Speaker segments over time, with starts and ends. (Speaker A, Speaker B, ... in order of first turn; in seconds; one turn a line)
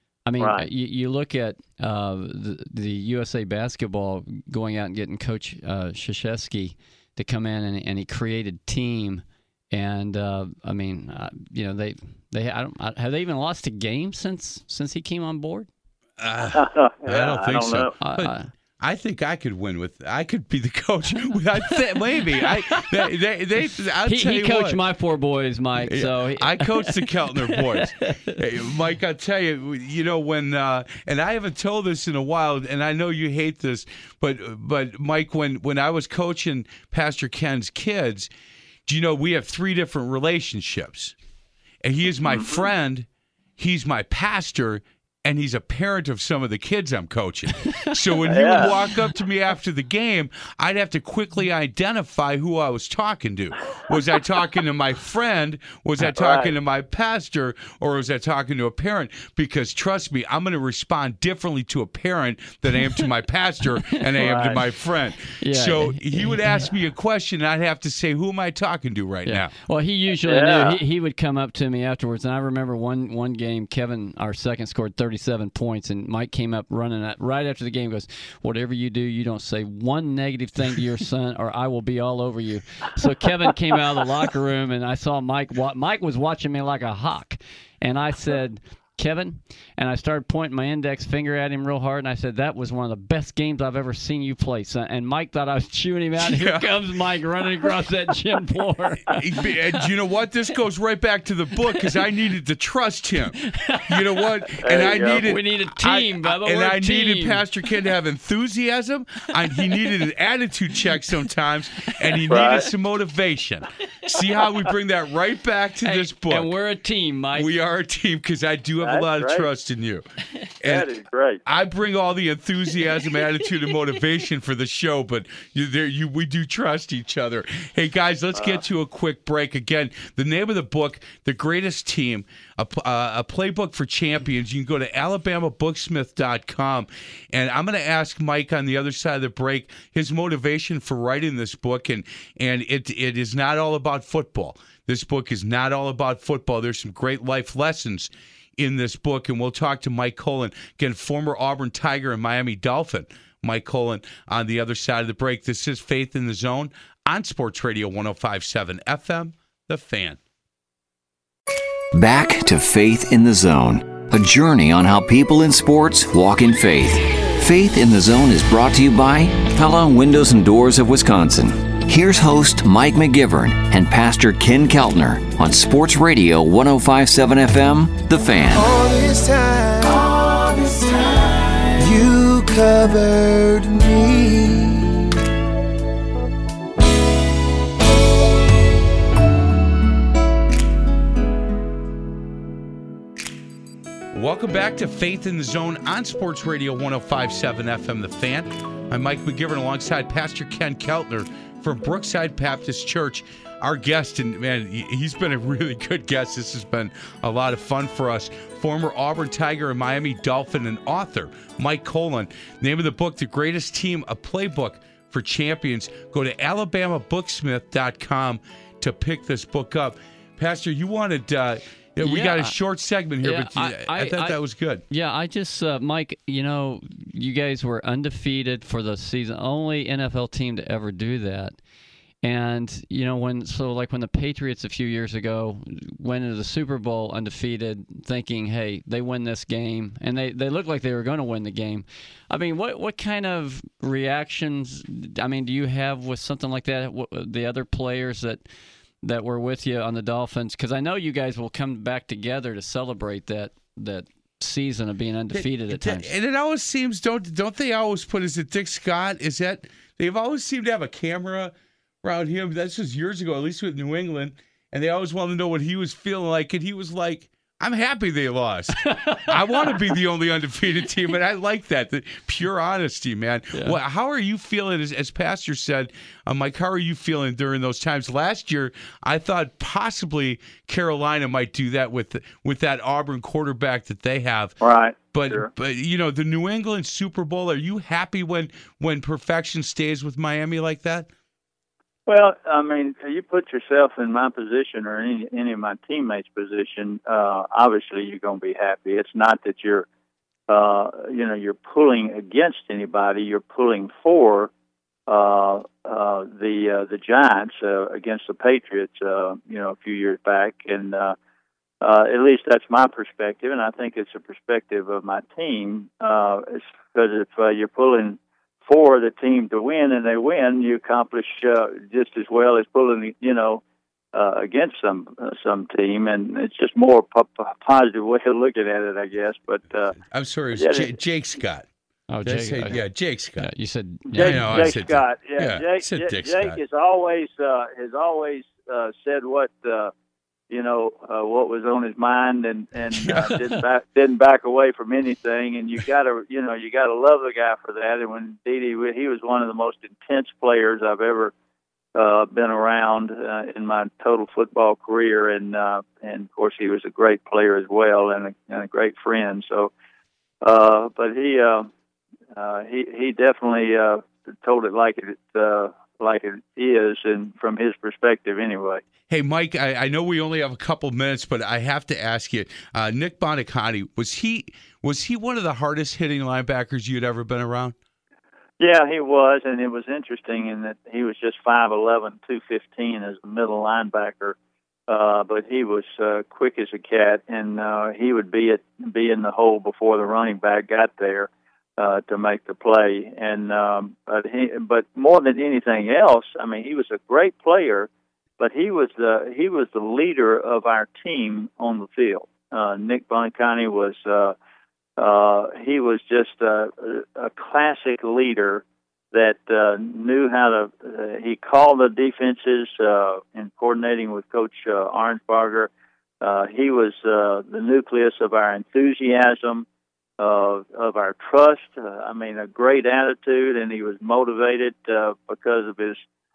Speaker A: 0.2-15.7
Speaker B: 0.4-0.7
Speaker C: 16.2-24.8
Speaker B: 16.5-17.9
Speaker A: 18.0-18.5
Speaker A: 22.4-23.1
Speaker A: 24.0-28.4
Speaker C: 25.8-38.3
Speaker C: 38.9-41.1
Speaker C: 41.8-43.1
Speaker B: 42.2-42.6
Speaker C: 43.6-69.5
Speaker B: 48.3-48.7
Speaker A: 48.5-49.0
Speaker B: 56.1-56.5
Speaker A: 63.8-64.4
Speaker B: 64.2-64.6
Speaker A: 65.4-66.8
Speaker A: 69.2-99.5
Speaker B: 70.2-70.8
Speaker C: 96.2-96.8
Speaker C: 99.1-116.5
Speaker A: 103.3-107.5
Speaker B: 104.6-105.2
Speaker A: 109.5-109.9
Speaker A: 111.9-112.3
Speaker B: 112.3-112.7
Speaker A: 115.8-117.5
Speaker C: 117.3-120.1
Speaker B: 118.8-119.5
Speaker C: 120.6-120.9
Speaker B: 120.6-121.4
Speaker C: 121.4-160.2
Speaker D: 161.9-178.7
Speaker E: 178.5-185.1
Speaker C: 194.1-224.8
Speaker A: 222.0-222.6
Speaker A: 223.2-231.6
Speaker A: 232.2-248.4
Speaker A: 249.0-256.1
Speaker C: 255.3-284.6
Speaker A: 268.8-269.8
Speaker B: 284.6-285.5
Speaker C: 285.1-291.1
Speaker B: 292.1-299.9
Speaker B: 300.5-304.5
Speaker B: 305.1-311.1
Speaker B: 311.8-323.6
Speaker B: 324.1-330.0
Speaker C: 329.9-331.7
Speaker B: 330.5-331.0
Speaker A: 332.1-332.8
Speaker C: 332.2-333.5
Speaker A: 333.4-334.7
Speaker B: 334.1-339.9
Speaker C: 334.1-336.6
Speaker B: 340.5-351.3
Speaker C: 343.0-343.6
Speaker B: 351.9-359.7
Speaker B: 360.4-361.7
Speaker B: 362.4-368.8
Speaker C: 369.1-377.8
Speaker B: 378.6-384.4
Speaker B: 384.9-404.4
Speaker B: 405.0-419.6
Speaker B: 420.2-426.0